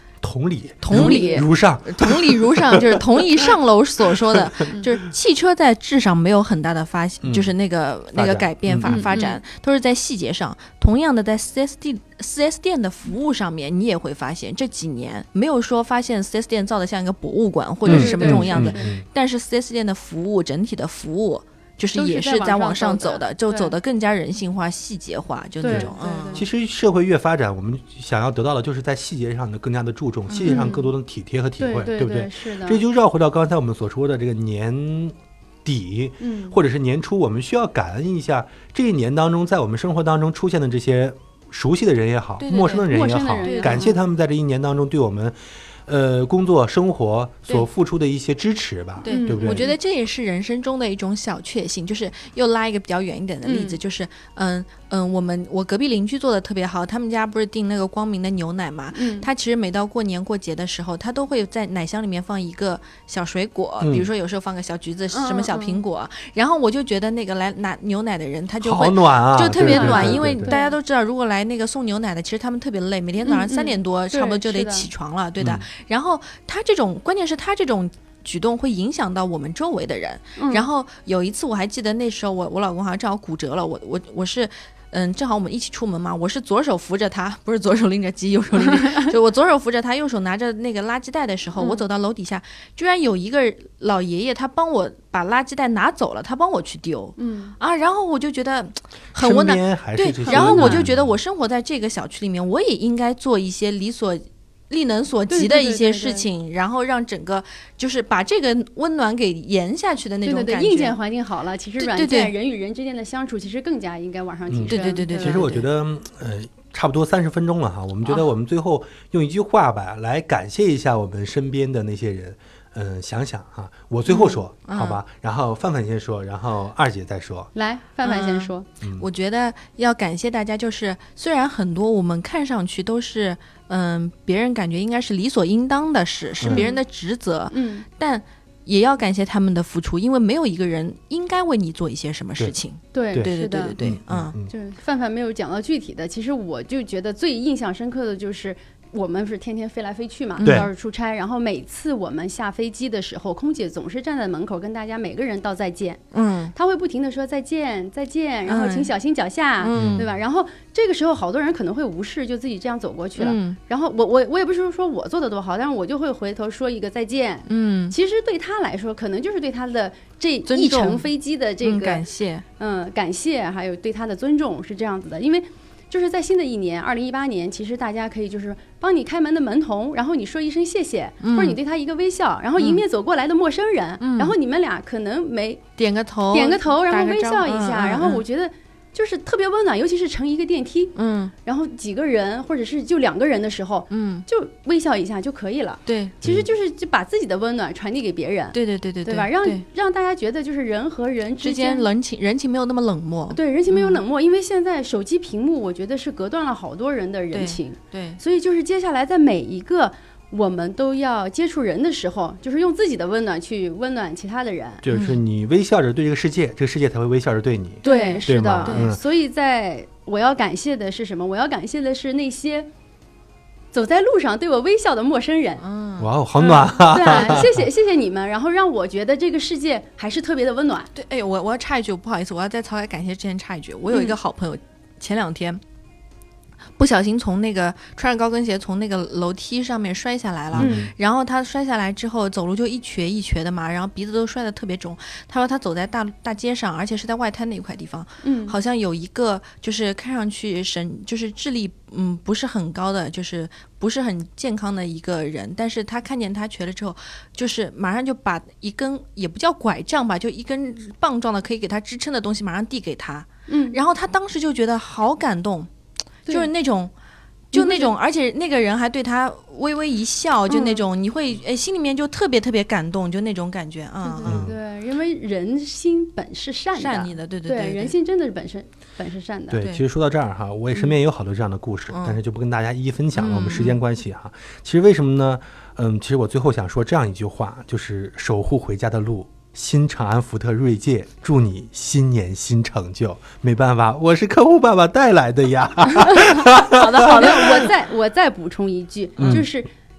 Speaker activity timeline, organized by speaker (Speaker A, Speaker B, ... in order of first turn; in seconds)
Speaker A: 0.2-3.2, 7.2-7.5, 8.1-9.1, 17.9-19.0, 25.7-49.7, 63.8-64.1, 68.6-70.5, 75.4-75.7, 99.1-101.1, 114.5-127.5, 136.4-136.7, 143.1-144.5, 150.4-150.7, 159.7-160.0, 196.2-196.5, 214.8-219.0, 226.0-227.7, 240.5-240.9, 274.2-274.6, 279.5-297.7, 299.2-299.4
Speaker B: 0.8-26.5, 30.3-30.8, 42.4-42.9, 43.4-44.0, 49.0-111.0, 111.8-112.3, 114.7-115.6, 124.1-125.0, 128.0-144.3, 150.4-150.7, 156.1-156.5, 158.5-158.9, 159.6-160.1, 163.2-163.6, 167.5-167.9, 170.5-171.1, 171.6-172.4, 181.2-181.6, 182.6-182.8, 184.0-184.3, 185.8-188.2, 190.9-191.3, 193.9-194.2, 195.8-196.2, 198.5-199.6, 201.4-204.0, 207.3-208.2, 217.8-218.9, 225.6-226.1, 230.9-235.6, 236.8-265.7, 266.3-266.9, 267.5-274.5, 276.7-277.9, 281.9-282.2, 283.1-283.8, 296.7-297.6
Speaker C: 0.9-1.4, 8.8-9.4, 17.8-18.8, 21.9-23.7, 25.6-26.5, 30.4-30.9, 31.6-32.8, 36.2-36.5, 42.9-43.9, 49.1-49.7, 53.4-53.8, 58.9-59.3, 65.1-65.8, 69.6-70.7, 73.2-74.9, 80.4-80.7, 88.6-89.0, 91.6-91.8, 97.2-97.5, 100.3-100.9, 105.3-106.3, 110.2-115.5, 127.5-128.7, 136.5-136.8, 137.5-137.8, 142.9-143.8, 144.5-172.0, 172.6-185.6, 186.3-201.9, 203.3-214.8, 217.8-222.7, 223.7-225.6, 226.4-230.9, 233.9-234.2, 240.6-240.9, 248.2-248.6, 263.5-263.8, 267.5-267.9, 270.5-270.8, 274.0-279.6, 296.9-299.7